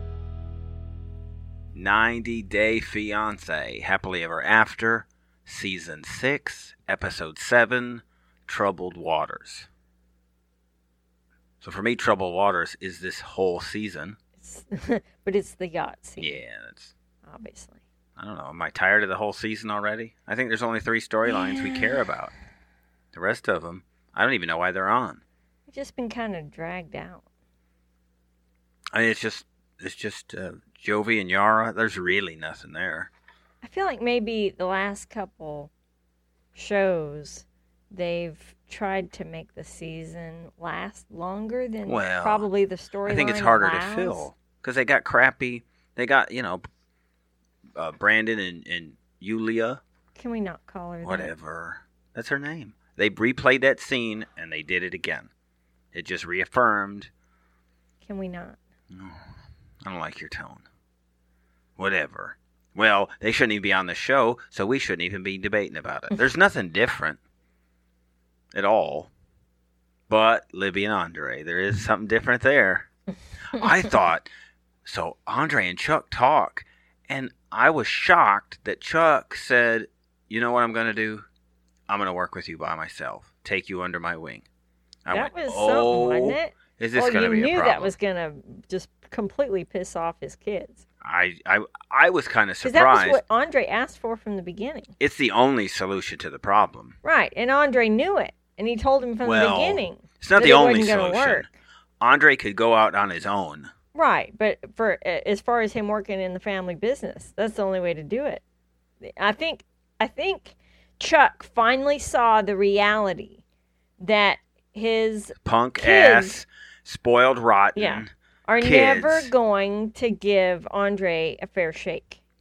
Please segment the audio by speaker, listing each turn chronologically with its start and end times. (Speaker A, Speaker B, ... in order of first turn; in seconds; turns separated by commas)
Speaker A: 1.7-9.7, Speaker A: 11.6-14.2, Speaker B: 14.4-16.4, Speaker A: 16.2-16.9, Speaker B: 17.2-17.8, Speaker A: 18.2-22.3, Speaker B: 21.2-22.1, Speaker A: 23.1-25.2, Speaker B: 25.7-27.2, Speaker A: 28.9-33.1, Speaker B: 33.6-35.7, Speaker B: 36.5-44.3, Speaker A: 41.8-42.5, Speaker A: 43.0-46.6, Speaker A: 47.8-49.8, Speaker B: 50.1-51.3, Speaker A: 51.0-55.3, Speaker A: 55.9-57.1, Speaker B: 58.0-58.6, Speaker A: 58.9-59.2, Speaker A: 59.8-60.6, Speaker A: 61.8-67.2, Speaker A: 68.5-69.1, Speaker A: 70.1-72.9, Speaker A: 73.5-74.3, Speaker A: 74.8-81.2, Speaker A: 81.9-84.5, Speaker A: 85.0-87.9, Speaker B: 85.1-90.8, Speaker A: 91.0-93.2, Speaker B: 92.6-94.9, Speaker A: 95.0-97.0, Speaker B: 97.0-101.5, Speaker A: 99.2-101.5, Speaker A: 102.0-103.7, Speaker B: 103.9-108.4, Speaker B: 109.0-113.4, Speaker B: 114.0-116.4, Speaker A: 115.4-119.3, Speaker B: 117.8-122.2